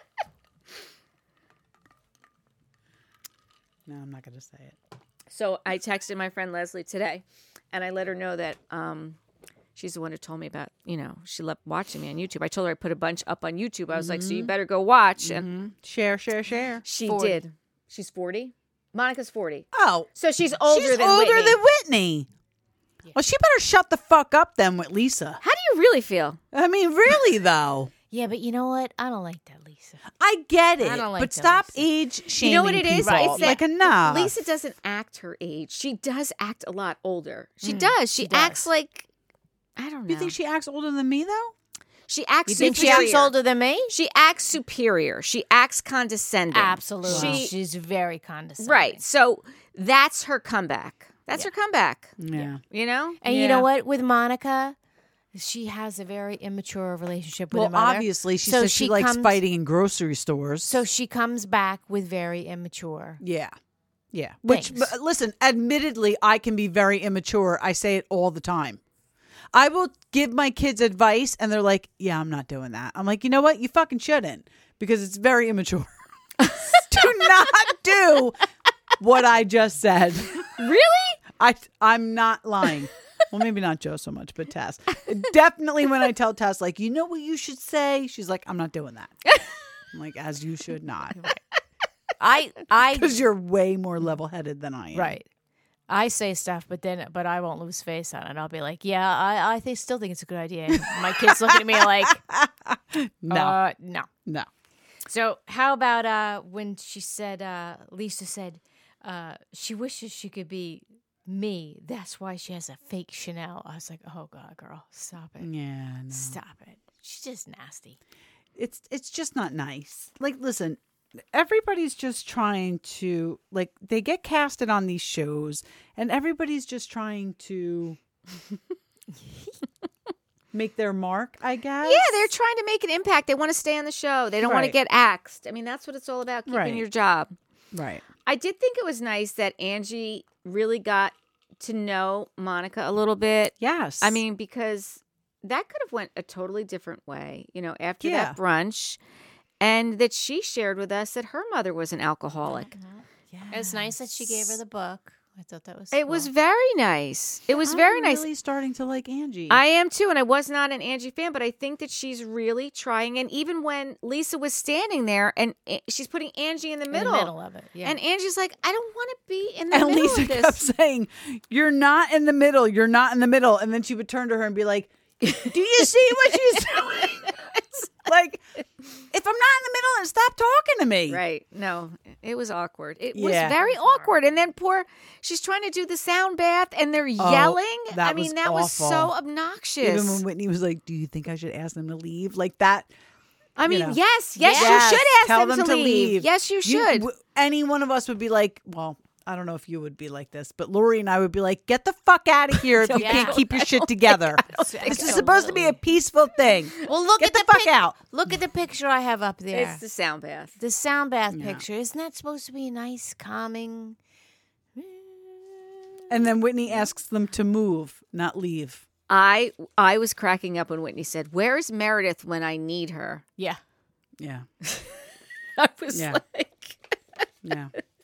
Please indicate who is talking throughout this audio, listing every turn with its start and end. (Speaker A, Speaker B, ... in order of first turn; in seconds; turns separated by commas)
Speaker A: 3.9-4.8, Speaker B: 5.3-9.2, Speaker B: 9.8-15.5, Speaker A: 13.9-14.5, Speaker A: 15.2-16.8, Speaker B: 16.8-21.6, Speaker C: 17.0-17.4, Speaker A: 19.7-20.1, Speaker A: 20.6-22.3, Speaker A: 23.1-25.4, Speaker B: 25.4-26.4, Speaker A: 26.5-27.9, Speaker C: 28.1-30.0, Speaker A: 30.1-34.4, Speaker C: 30.8-31.9, Speaker B: 32.4-39.1, Speaker C: 33.0-33.6, Speaker C: 37.6-38.7, Speaker B: 39.8-40.3, Speaker A: 40.1-41.5, Speaker B: 42.1-43.3, Speaker C: 42.5-43.9, Speaker A: 42.6-43.1, Speaker B: 43.9-47.5, Speaker C: 46.5-49.0, Speaker A: 47.1-47.5, Speaker B: 48.6-53.2, Speaker A: 52.2-52.6, Speaker C: 53.2-54.8, Speaker A: 53.2-53.7, Speaker C: 55.3-59.4, Speaker A: 57.5-60.8, Speaker C: 60.6-63.2, Speaker A: 63.2-63.5, Speaker A: 64.1-68.8, Speaker C: 64.5-64.9, Speaker A: 69.5-78.5, Speaker B: 76.4-77.0, Speaker A: 79.0-80.5, Speaker B: 80.4-81.2, Speaker A: 81.3-89.2, Speaker A: 89.9-91.2, Speaker C: 91.1-91.4, Speaker C: 92.2-93.2, Speaker A: 92.8-95.2, Speaker C: 94.9-95.3, Speaker C: 95.9-102.2, Speaker A: 100.7-103.6, Speaker C: 103.3-104.1, Speaker C: 105.0-115.5, Speaker A: 115.4-116.4, Speaker C: 116.1-118.0, Speaker A: 118.5-120.8, Speaker A: 121.3-128.0, Speaker A: 130.5-132.3, Speaker B: 131.8-137.3, Speaker A: 134.4-134.7, Speaker A: 136.5-136.8, Speaker A: 137.7-138.0, Speaker B: 138.2-149.0, Speaker A: 143.6-144.2, Speaker A: 148.0-148.4, Speaker B: 149.6-152.7, Speaker C: 152.5-156.3, Speaker A: 153.3-154.6, Speaker B: 155.9-158.2, Speaker A: 157.5-159.6, Speaker B: 159.5-167.3, Speaker C: 166.9-168.0, Speaker B: 167.8-170.6, Speaker A: 169.7-177.5, Speaker B: 176.3-176.8, Speaker A: 178.0-178.4, Speaker A: 179.0-181.2, Speaker B: 181.1-190.2, Speaker A: 183.1-183.6, Speaker C: 183.4-184.1, Speaker A: 187.2-189.1, Speaker A: 189.8-192.9, Speaker B: 193.6-197.1, Speaker A: 193.6-194.0, Speaker C: 194.4-195.0, Speaker A: 194.5-207.9, Speaker B: 202.7-205.2, Speaker C: 202.9-203.4, Speaker C: 204.5-205.8, Speaker C: 206.8-209.8, Speaker B: 209.5-210.6, Speaker C: 210.6-214.0, Speaker A: 211.3-211.6, Speaker C: 214.7-215.9, Speaker A: 216.1-218.8, Speaker B: 219.1-223.2, Speaker A: 224.2-224.4, Speaker B: 224.6-226.8, Speaker A: 225.9-226.2, Speaker A: 227.4-227.7